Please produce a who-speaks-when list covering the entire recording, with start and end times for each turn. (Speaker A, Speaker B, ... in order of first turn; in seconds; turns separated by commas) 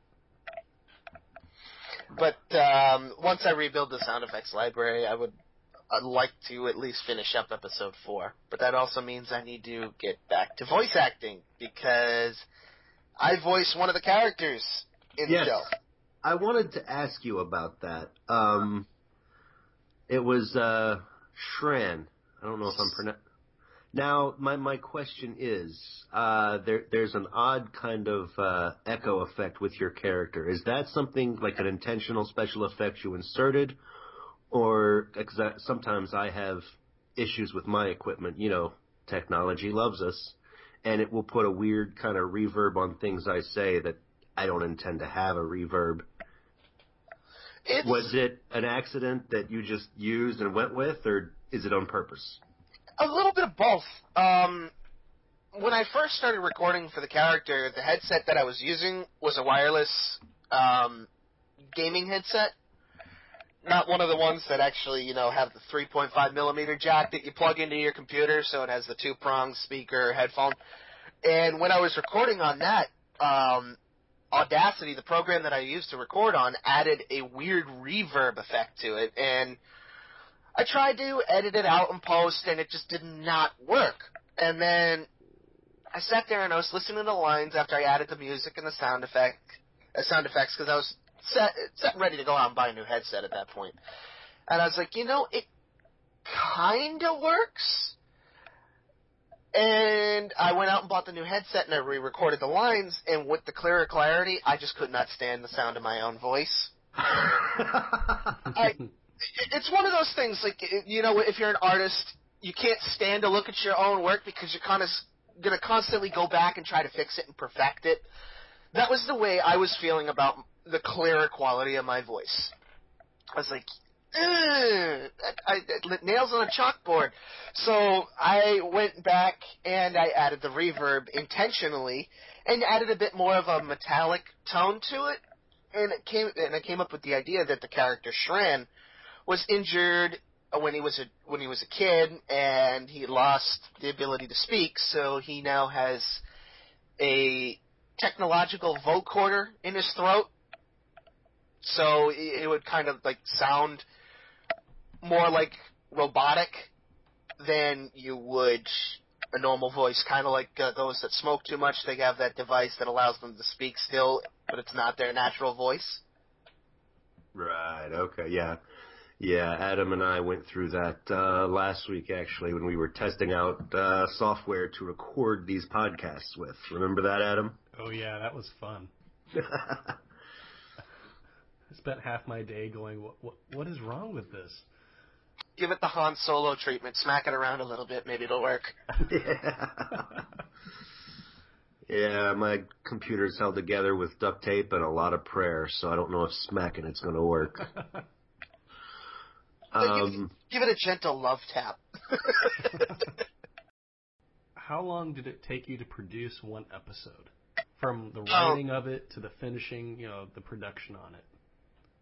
Speaker A: 2.1-5.3, Speaker A: 5.9-12.4, Speaker A: 13.2-15.7, Speaker B: 15.2-18.9, Speaker B: 20.1-23.2, Speaker B: 23.9-33.8, Speaker B: 34.5-46.0, Speaker A: 47.6-48.1, Speaker B: 47.8-52.4, Speaker A: 53.0-54.7, Speaker A: 55.5-61.1, Speaker A: 61.7-62.5, Speaker A: 63.6-70.6, Speaker A: 71.2-73.8, Speaker A: 74.3-79.6, Speaker A: 80.5-85.1, Speaker A: 85.9-93.8, Speaker A: 94.5-95.5, Speaker A: 96.2-98.0, Speaker A: 99.5-106.7, Speaker B: 107.3-108.4, Speaker A: 108.5-118.1, Speaker A: 118.7-122.5, Speaker A: 123.3-135.2, Speaker A: 135.7-138.7, Speaker A: 139.3-146.2, Speaker A: 147.0-150.3, Speaker A: 151.6-153.8, Speaker A: 155.0-156.7, Speaker A: 157.4-166.0, Speaker B: 167.3-168.6, Speaker B: 169.2-177.6, Speaker C: 177.7-178.9, Speaker B: 179.3-179.9, Speaker C: 181.7-184.6, Speaker A: 185.6-188.8, Speaker B: 189.1-190.2, Speaker B: 191.9-197.7, Speaker B: 199.7-200.3, Speaker A: 199.8-202.7, Speaker C: 204.6-211.2, Speaker A: 208.3-208.6